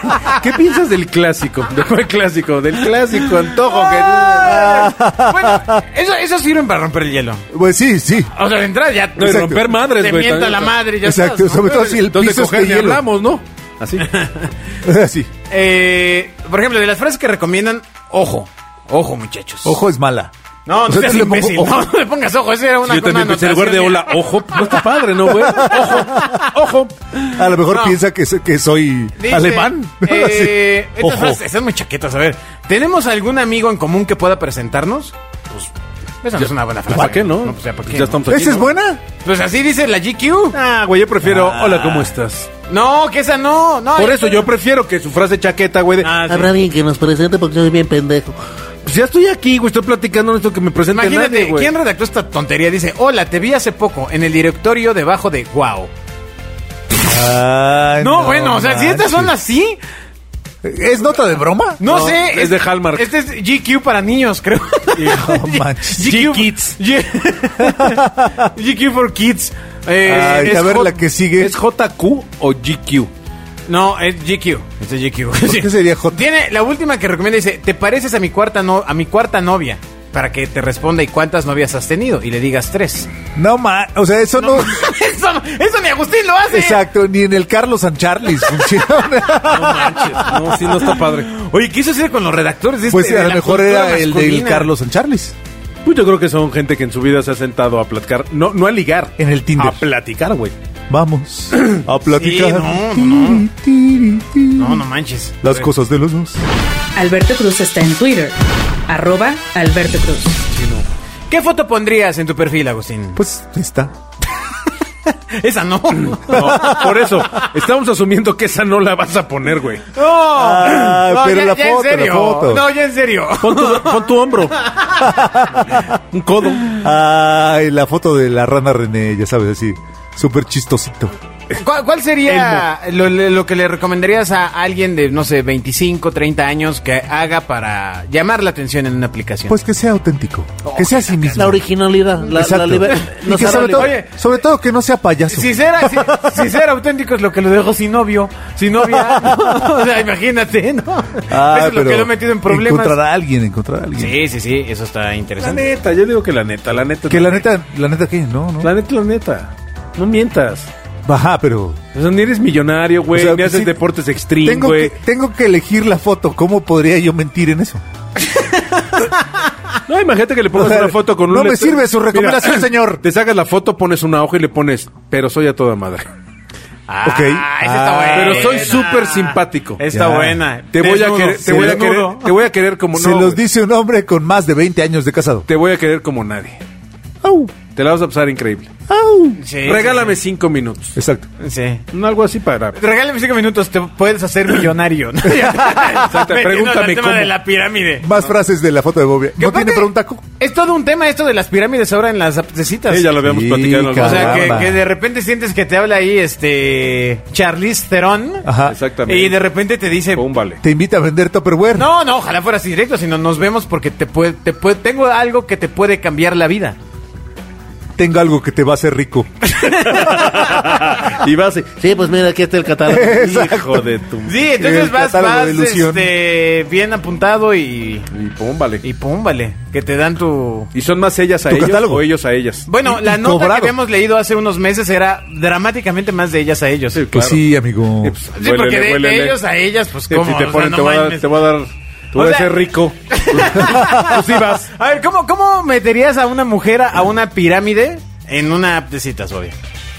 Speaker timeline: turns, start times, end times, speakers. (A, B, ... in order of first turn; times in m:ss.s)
0:00.2-0:04.4 A
0:03.4-0:07.4 B
0:04.4-0:05.8 C
0:07.5-0:08.3 C
0:08.3-0:12.0 B
0:09.2-0:10.7 A
0:09.2-0:09.6 C
0:11.0-0:13.0 C
0:11.8-0:14.1 A
0:14.0-0:14.5 B
0:14.8-0:15.3 C
0:15.5-0:19.8 B
0:19.6-0:20.3 C
0:20.6-0:24.8 B
0:20.8-0:21.8 C
0:22.8-0:26.8 A
0:25.4-0:26.5 C
0:25.5-0:28.0 B
0:27.3-0:31.4 C
0:29.2-0:35.7 B
0:36.2-0:38.2 B
0:36.4-0:38.6 A
0:38.3-0:39.0 C
0:39.2-0:40.6 B
0:40.5-0:42.5 A
0:41.2-0:42.1 C
0:42.7-0:44.4 B
0:43.9-0:46.2 A
0:46.0-0:46.6 B
0:46.2-0:48.4 D
0:48.8-0:51.7 A
0:50.9-0:55.9 B
0:57.0-0:59.3 C
0:58.0-0:59.8 B
1:00.6-1:01.8 C
1:01.8-1:10.9 B
1:01.8-1:03.1 A
1:05.0-1:06.4 C
1:07.6-1:08.4 C
1:10.0-1:11.5 C
1:10.3-1:10.6 A
1:11.4-1:13.1 A
1:13.6-1:23.1 B
1:15.4-1:16.2 C
1:23.4-1:24.9 C
1:24.4-1:26.8 B
1:26.5-1:30.0 C
1:28.6-1:28.8 B
1:29.4-1:34.7 B
1:29.5-1:31.3 A
1:32.9-1:35.3 C
1:35.8-1:40.5 A
1:39.2-1:39.8 C
1:40.9-1:44.8 C
1:42.1-1:43.4 B
1:44.6-1:45.7 B
1:45.4-1:46.4 C
1:47.0-1:48.4 E
1:48.9-1:50.4 E
1:50.5-1:50.8 A
1:51.3-1:53.2 B
1:53.1-1:53.9 C
1:55.0-1:57.0 B
1:56.2-1:59.9 A
1:56.3-1:56.9 C
1:59.9-2:05.1 B
2:00.3-2:02.6 C
2:03.4-2:04.6 A
2:05.0-2:05.8 C
2:05.8-2:06.8 A
2:06.7-2:11.1 C
2:11.5-2:19.6 B
2:12.2-2:12.6 A
2:19.5-2:21.6 C
2:20.6-2:21.6 B
2:21.4-2:23.9 D
2:22.3-2:26.4 C
2:22.8-2:24.1 B
2:25.3-2:33.0 B
2:29.2-2:29.5 C
2:31.3-2:34.2 C
2:34.0-2:35.6 B
2:35.4-2:37.4 A
2:37.1-2:38.7 C
2:38.6-2:40.7 A
2:41.0-2:41.8 C
2:41.9-2:44.9 A
2:43.1-2:43.7 C
2:44.4-2:47.8 C
2:48.3-2:48.8 B
2:49.9-2:56.0 A
2:50.5-2:53.0 C
2:56.9-3:02.3 B
2:57.0-2:58.8 C
2:58.1-2:59.8 A
2:59.9-3:00.4 C
3:00.7-3:03.4 A
3:01.5-3:01.8 C
3:02.9-3:05.4 C
3:05.5-3:06.6 A
3:07.2-3:07.5 C
3:07.7-3:08.7 A
3:08.9-3:09.4 C
3:09.4-3:10.2 B
3:09.6-3:11.0 A
3:11.0-3:11.3 C
3:11.4-3:11.8 B
3:11.9-3:12.8 A
3:12.7-3:18.1 B
3:15.3-3:15.5 C
3:15.8-3:17.3 A
3:18.0-3:20.2 C
3:19.4-3:19.9 B
3:20.4-3:23.1 B
3:22.9-3:24.8 A
3:23.2-3:24.8 C
3:23.9-3:28.5 B
3:28.4-3:28.8 C
3:28.6-3:29.4 A
3:29.0-3:30.2 B
3:30.1-3:30.6 A
3:30.6-3:31.9 C
3:31.7-3:36.8 B
3:38.0-3:39.3 C
3:39.4-3:40.7 B
3:39.7-3:41.8 A
3:41.7-3:43.5 D
3:42.8-3:43.8 C
3:43.3-3:44.2 A
3:44.2-3:48.1 B
3:44.4-3:46.0 C
3:48.1-3:48.8 A
3:48.8-3:50.7 B
3:50.7-3:52.7 A
3:51.5-3:52.0 C
3:52.7-3:57.1 B
3:52.8-3:53.7 C
3:56.9-3:57.4 A
3:57.1-3:58.2 C
3:58.0-3:59.4 A
3:58.3-4:01.2 B
4:00.1-4:04.7 A
4:02.1-4:09.5 B
4:03.7-4:04.2 C